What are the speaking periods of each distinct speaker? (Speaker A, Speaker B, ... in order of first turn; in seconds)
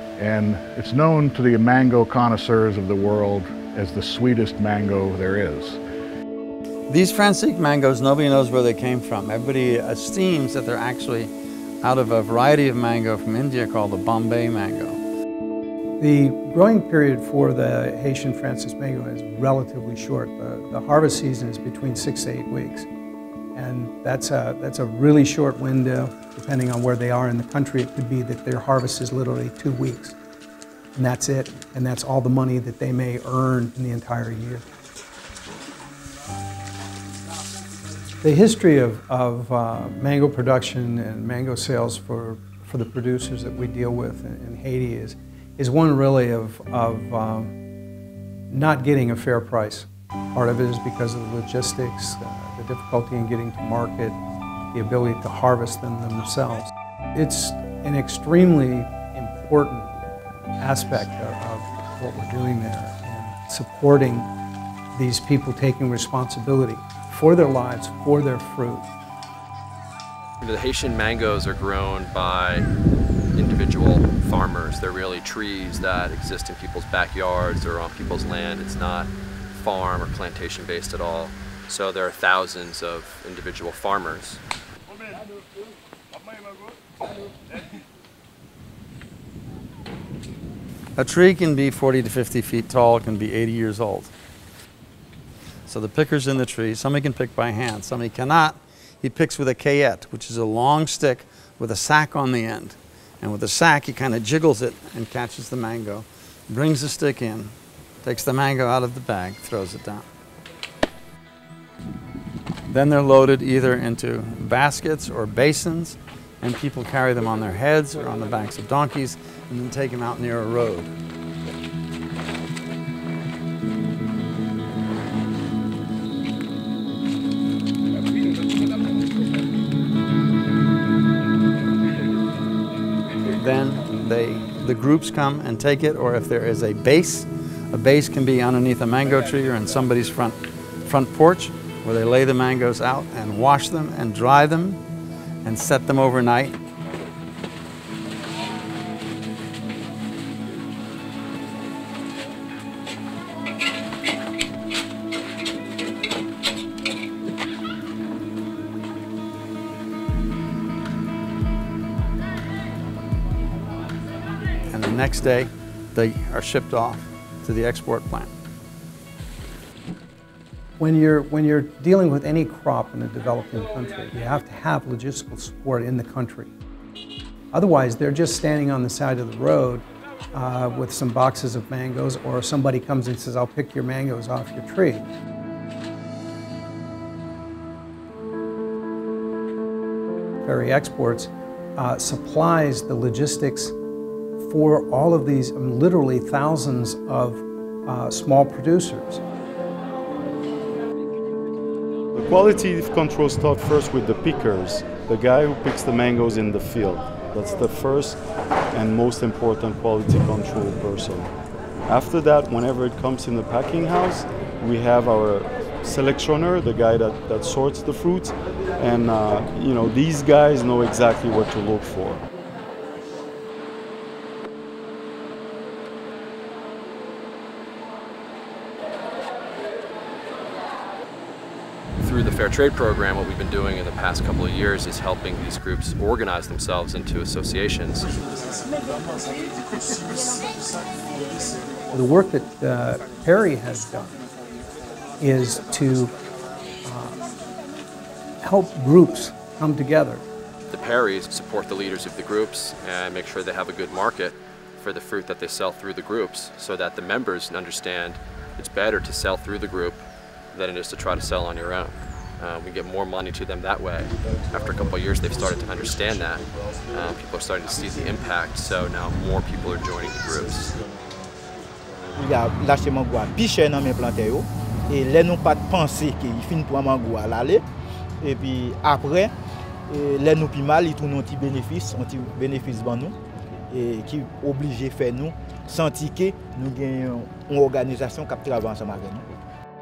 Speaker A: 0.2-5.8
Speaker B: 6.9-15.0, 91.0-94.1, 95.7-110.1, 112.7-120.9, 133.3-144.8, 145.4-146.6, 164.7-168.3
Speaker C: 16.0-22.9, 23.6-30.2, 31.0-34.7, 38.2-47.5, 48.5-54.2, 54.7-59.9, 60.6-64.3, 64.9-68.9, 170.8-176.5, 177.5-185.1, 190.4-193.8, 194.4-199.2, 241.9-244.2, 245.2-246.1, 246.8-247.2, 248.4-250.2
Speaker D: 70.4-72.7, 73.3-84.4, 232.0-238.1, 250.7-270.8
Speaker E: 202.2-211.3, 211.9-222.2
Speaker F: 272.2-277.6, 278.2-279.3, 279.9-283.2, 283.7-289.3